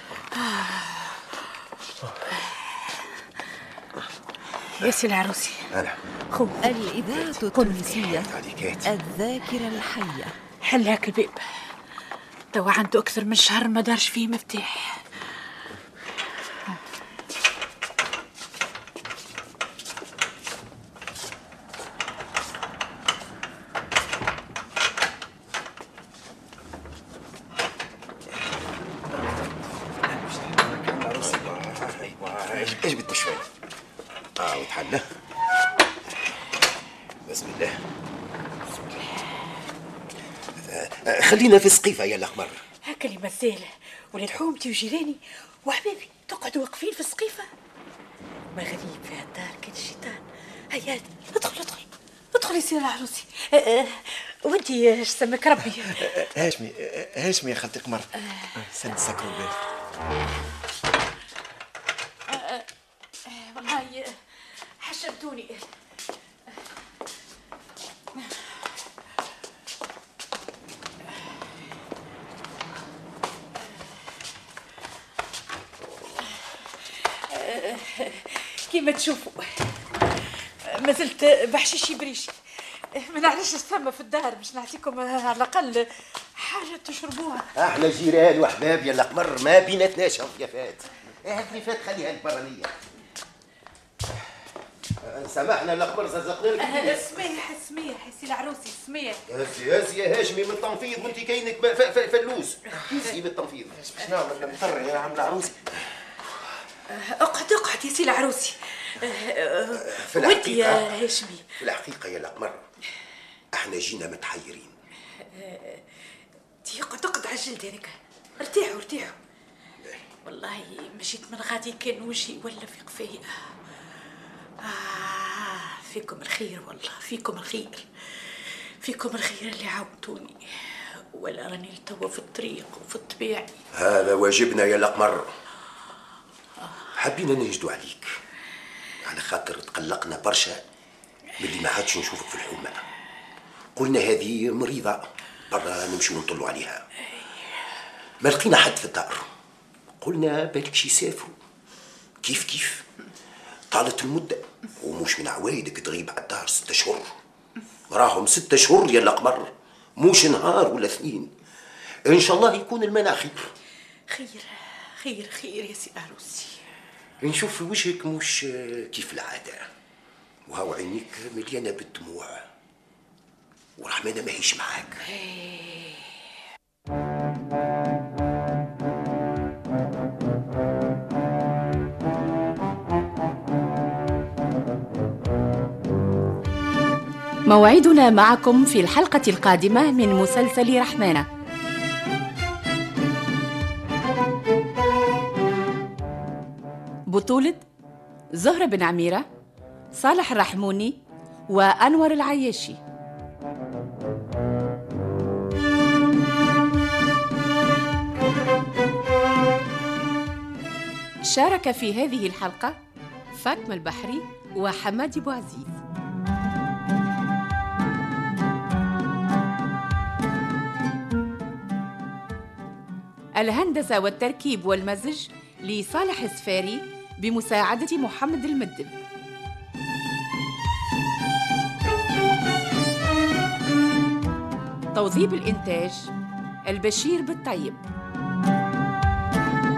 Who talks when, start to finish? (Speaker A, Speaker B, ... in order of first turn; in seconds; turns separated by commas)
Speaker A: 0.3-1.4, Speaker A: 4.8-5.7, Speaker A: 6.3-8.2, Speaker B: 6.6-8.3, Speaker C: 8.1-8.9, Speaker B: 8.8-10.3, Speaker A: 10.7-11.4, Speaker A: 12.5-15.1, Speaker D: 30.2-31.1, Speaker C: 31.0-33.5, Speaker C: 34.4-35.1, Speaker C: 37.2-37.8, Speaker C: 40.6-42.6, Speaker A: 42.9-47.5, Speaker A: 48.5-56.3, Speaker D: 56.0-59.6, Speaker A: 62.3-62.6, Speaker A: 63.2-64.2, Speaker A: 64.8-65.7, Speaker A: 77.3-80.0, Speaker A: 80.6-87.5, Speaker C: 87.5-92.7, Speaker C: 95.0-97.3, Speaker A: 96.6-99.2, Speaker C: 99.3-103.8, Speaker D: 103.7-105.6, Speaker A: 106.9-111.5, Speaker C: 109.7-111.0, Speaker C: 111.6-112.7, Speaker C: 113.5-114.7, Speaker A: 115.3-115.8, Speaker A: 116.6-119.2, Speaker A: 120.2-123.5, Speaker A: 124.6-133.6, Speaker C: 133.7-135.3, Speaker C: 136.9-138.1, Speaker C: 139.0-140.6, Speaker C: 141.4-142.8, Speaker C: 143.8-146.8, Speaker C: 148.2-149.2, Speaker C: 150.0-151.3, Speaker C: 152.2-152.9, Speaker C: 153.7-157.1, Speaker C: 157.9-161.3, Speaker C: 162.1-163.5, Speaker A: 164.1-166.6, Speaker C: 167.2-169.7, Speaker C: 170.5-172.4, Speaker C: 173.8-175.0, Speaker A: 175.1-176.1, Speaker E: 187.5-191.2, Speaker E: 197.1-197.6, Speaker E: 198.4-199.2, Speaker E: 200.0-201.0, Speaker E: 201.5-202.8, Speaker E: 211.2-212.8, Speaker E: 213.3-215.8, Speaker E: 223.4-228.9, Speaker E: 234.9-236.1, Speaker E: 236.7-237.8